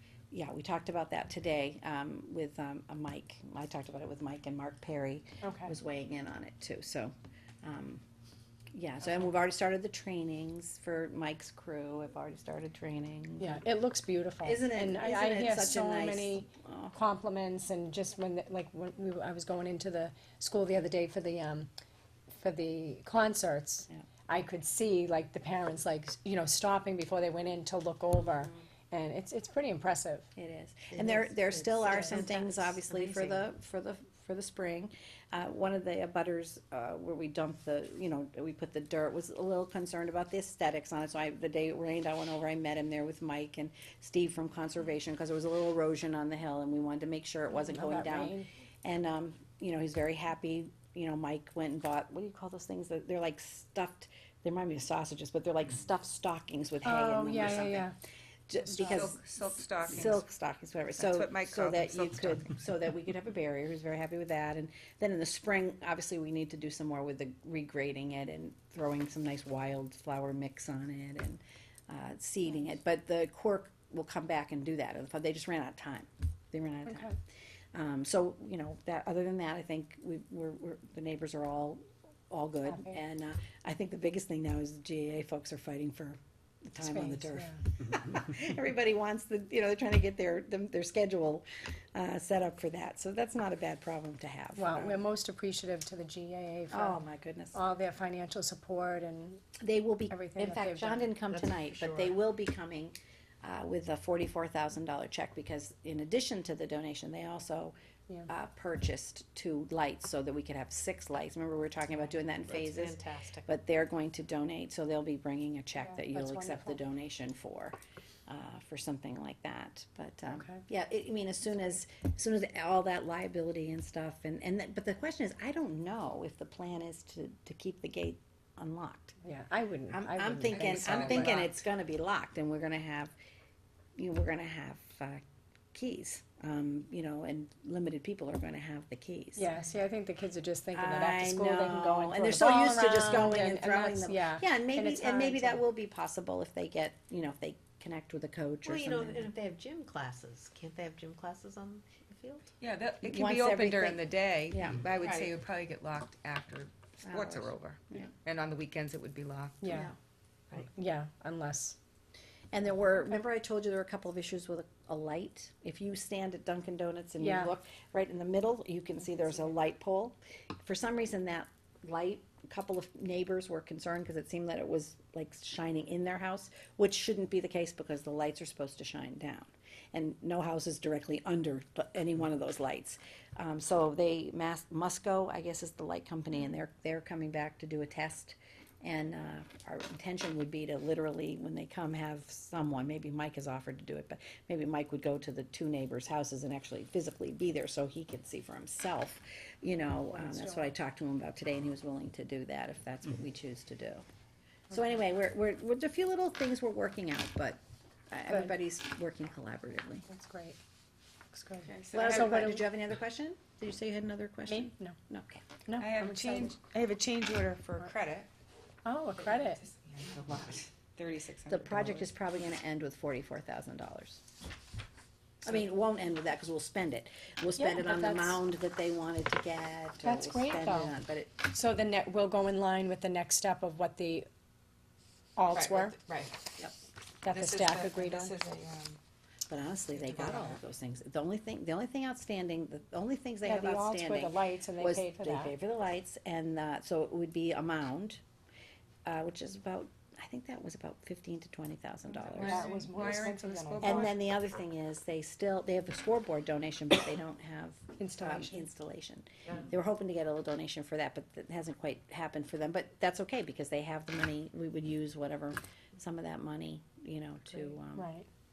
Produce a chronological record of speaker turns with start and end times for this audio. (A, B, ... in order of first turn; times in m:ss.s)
0:00.3-0:08.0 A
0:05.4-0:05.7 B
0:08.7-0:13.6 A
0:13.4-0:21.7 B
0:14.4-0:17.0 A
0:22.3-0:30.3 B
0:30.4-0:57.9 A
0:30.9-0:32.8 C
0:33.1-0:33.4 B
0:47.5-0:48.5 B
0:56.8-0:57.9 B
0:58.5-0:59.2 A
0:58.6-0:59.0 B
0:58.9-1:00.2 D
0:59.8-1:17.2 A
1:01.0-1:02.5 D
1:16.9-1:17.1 B
1:17.7-1:35.0 A
1:26.8-1:27.6 B
1:34.6-1:37.0 B
1:36.7-1:37.6 A
1:37.5-1:39.5 B
1:39.6-1:47.7 A
1:40.1-1:41.1 B
1:41.3-1:42.1 C
1:48.3-1:57.8 A
1:52.5-1:53.5 C
1:55.9-1:56.8 B
1:58.3-2:09.2 A
2:00.3-2:00.6 B
2:09.2-2:11.4 B
2:09.9-2:13.2 A
2:10.5-2:11.5 D
2:14.0-2:19.5 A
2:19.4-2:25.6 B
2:20.7-2:29.3 A
2:28.6-2:32.5 C
2:32.6-2:39.9 D
2:33.0-2:34.9 A
2:35.0-2:35.3 C
2:37.0-2:38.0 A
2:39.6-2:39.9 B
2:39.7-2:40.0 A
2:40.6-2:41.8 B
2:42.5-3:24.0 A
2:47.2-2:47.5 B
3:20.1-3:20.7 B
3:24.7-3:30.0 A
3:28.3-3:28.6 B
3:30.1-3:30.6 B
3:31.3-3:32.7 B
3:31.6-3:32.3 D
3:31.9-3:35.5 A
3:34.5-3:35.0 B
3:35.7-3:36.5 B
3:35.8-3:38.3 D
3:38.8-3:39.6 B
3:39.2-3:42.1 D
3:41.5-3:44.2 A
3:45.4-3:51.4 A
3:47.6-3:48.4 B
3:50.0-3:54.3 B
3:55.4-3:56.0 B
3:55.5-3:56.3 D
3:57.2-3:58.4 B
3:57.2-3:59.0 D
3:59.5-4:08.2 A
4:00.0-4:00.6 D
4:03.4-4:05.5 B
4:09.1-4:12.7 A
4:12.2-4:14.3 D
4:12.4-4:14.1 B
4:13.8-4:28.1 A
4:18.0-4:18.7 B
4:27.9-4:28.3 B